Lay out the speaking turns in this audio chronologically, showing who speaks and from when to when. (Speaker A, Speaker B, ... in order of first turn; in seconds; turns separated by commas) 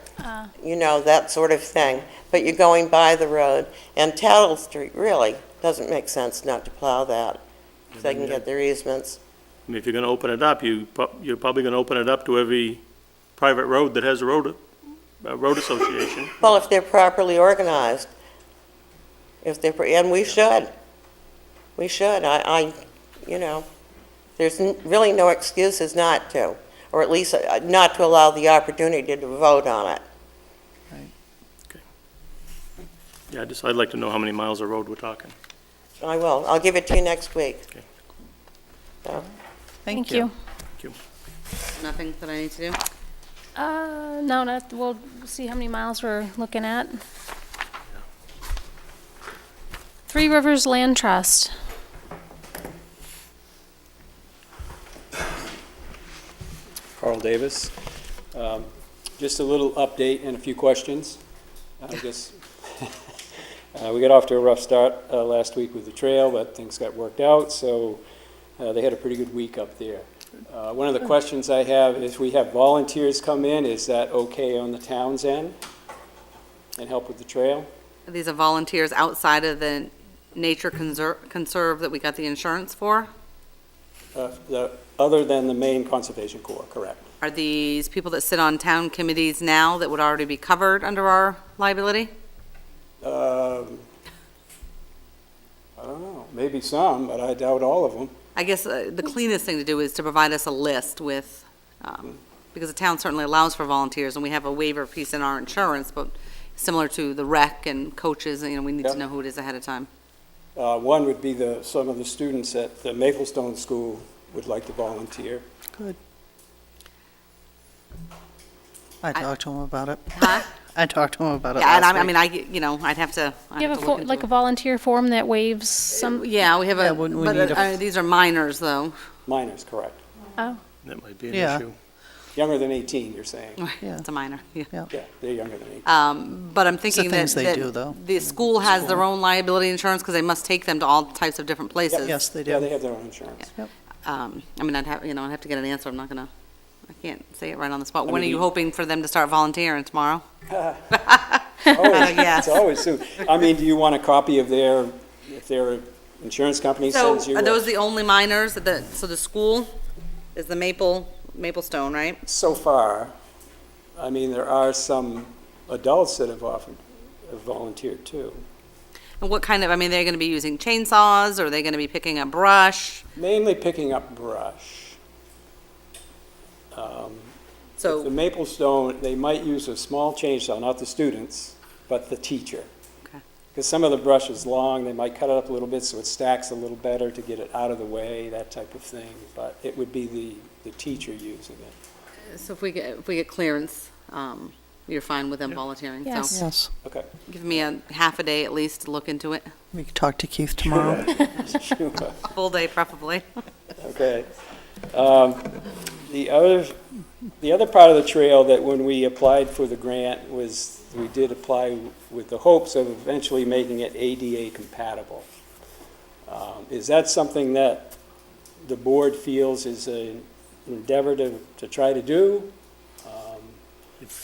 Speaker A: 0.2-0.5, Speaker B: 0.6-7.4, Speaker B: 7.9-9.2, Speaker C: 9.7-12.8, Speaker C: 13.4-14.6, Speaker C: 15.2-16.3, Speaker B: 16.4-18.1, Speaker B: 19.4-20.7, Speaker B: 21.8-23.6, Speaker B: 24.4-30.0, Speaker C: 33.3-35.3, Speaker B: 36.0-37.6, Speaker D: 39.9-40.3, Speaker A: 39.9-40.3, Speaker E: 41.8-42.8, Speaker A: 43.5-47.0, Speaker A: 50.1-51.5, Speaker F: 57.0-57.8, Speaker F: 58.3-61.2, Speaker F: 61.8-62.9, Speaker F: 63.7-68.0, Speaker F: 68.6-75.5, Speaker F: 76.8-77.7, Speaker E: 78.1-83.1, Speaker F: 84.1-87.1, Speaker E: 87.2-92.1, Speaker F: 93.0-93.8, Speaker F: 95.8-98.1, Speaker E: 98.3-109.9, Speaker F: 110.5-115.4, Speaker D: 119.0-122.1, Speaker E: 120.1-120.5, Speaker E: 121.5-124.3, Speaker A: 123.6-126.3, Speaker E: 125.9-128.9, Speaker D: 126.8-127.8, Speaker F: 129.2-130.0, Speaker C: 130.8-131.8, Speaker D: 131.3-131.6, Speaker F: 132.3-133.6, Speaker E: 133.6-134.7, Speaker F: 134.9-135.9, Speaker E: 135.8-142.2, Speaker D: 136.9-138.1, Speaker F: 141.8-143.5, Speaker D: 142.0-142.7, Speaker E: 144.0-146.3, Speaker E: 146.9-150.2, Speaker F: 148.0-148.5, Speaker F: 150.5-151.1, Speaker E: 150.9-152.7, Speaker F: 151.7-157.7, Speaker E: 156.9-159.7, Speaker E: 160.3-162.2, Speaker F: 162.2-163.1, Speaker F: 163.9-168.4, Speaker E: 169.2-173.0, Speaker F: 173.1-175.0, Speaker F: 176.7-177.3, Speaker E: 177.8-178.1, Speaker F: 177.8-182.7, Speaker F: 183.5-191.8, Speaker E: 192.3-196.4, Speaker A: 196.0-196.3, Speaker D: 196.3-196.7, Speaker F: 196.8-197.1, Speaker E: 197.3-199.5, Speaker D: 199.7-201.1, Speaker F: 200.6-202.3, Speaker E: 202.3-203.2, Speaker F: 203.8-204.3, Speaker F: 204.9-206.8, Speaker F: 207.4-215.3, Speaker F: 216.3-218.0, Speaker F: 218.6-223.6